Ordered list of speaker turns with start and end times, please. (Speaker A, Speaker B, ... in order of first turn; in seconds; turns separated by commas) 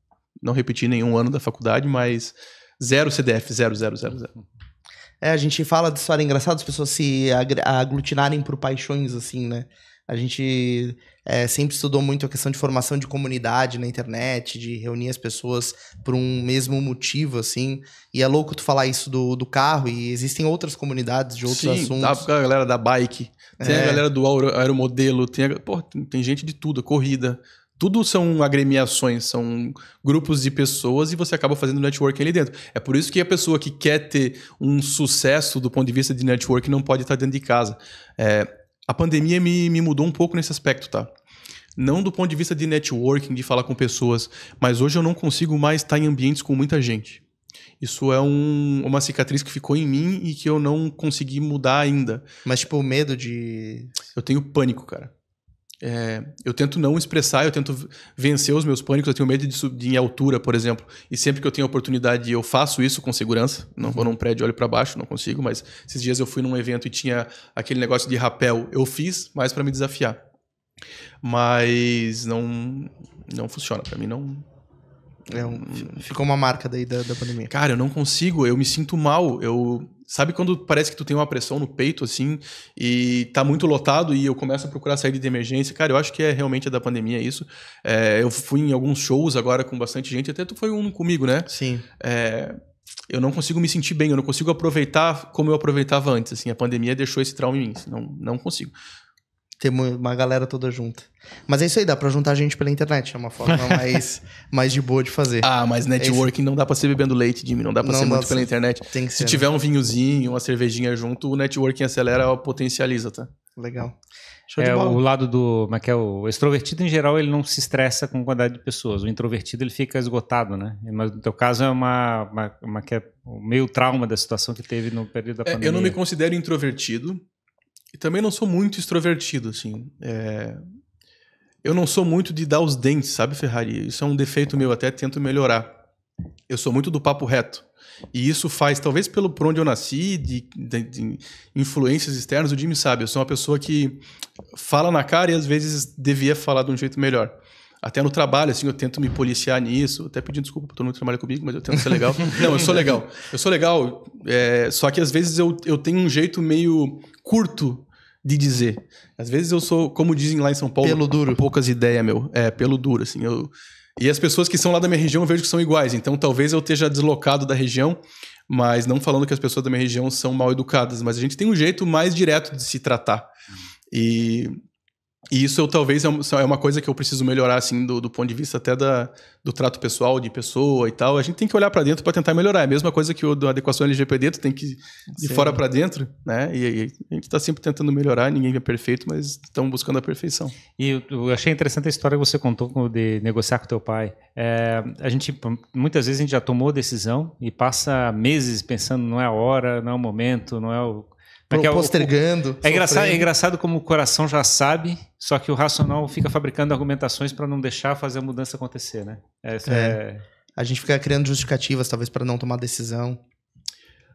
Speaker A: 0.4-4.3, Speaker B: 5.2-22.2, Speaker A: 21.4-41.1, Speaker B: 23.6-24.0, Speaker A: 41.8-47.2, Speaker A: 47.8-52.3, Speaker B: 52.5-53.9, Speaker A: 54.1-55.1, Speaker A: 55.8-70.2, Speaker B: 63.8-64.1, Speaker A: 71.2-74.4, Speaker B: 75.3-77.5, Speaker A: 75.3-76.0, Speaker A: 77.5-92.6, Speaker B: 91.5-91.8, Speaker A: 93.1-98.7, Speaker B: 99.6-105.5, Speaker A: 105.4-113.3, Speaker B: 106.0-106.3, Speaker B: 107.8-109.4, Speaker B: 113.6-114.0, Speaker B: 114.5-115.0, Speaker C: 114.6-126.0, Speaker A: 125.5-127.2, Speaker A: 127.9-130.6, Speaker A: 131.6-135.7, Speaker A: 136.5-144.0, Speaker A: 144.5-173.3, Speaker B: 160.8-161.4, Speaker A: 173.9-174.5, Speaker A: 175.3-190.6, Speaker B: 185.2-185.6, Speaker C: 190.8-210.2, Speaker B: 201.5-203.3, Speaker B: 209.7-210.0, Speaker B: 210.6-213.2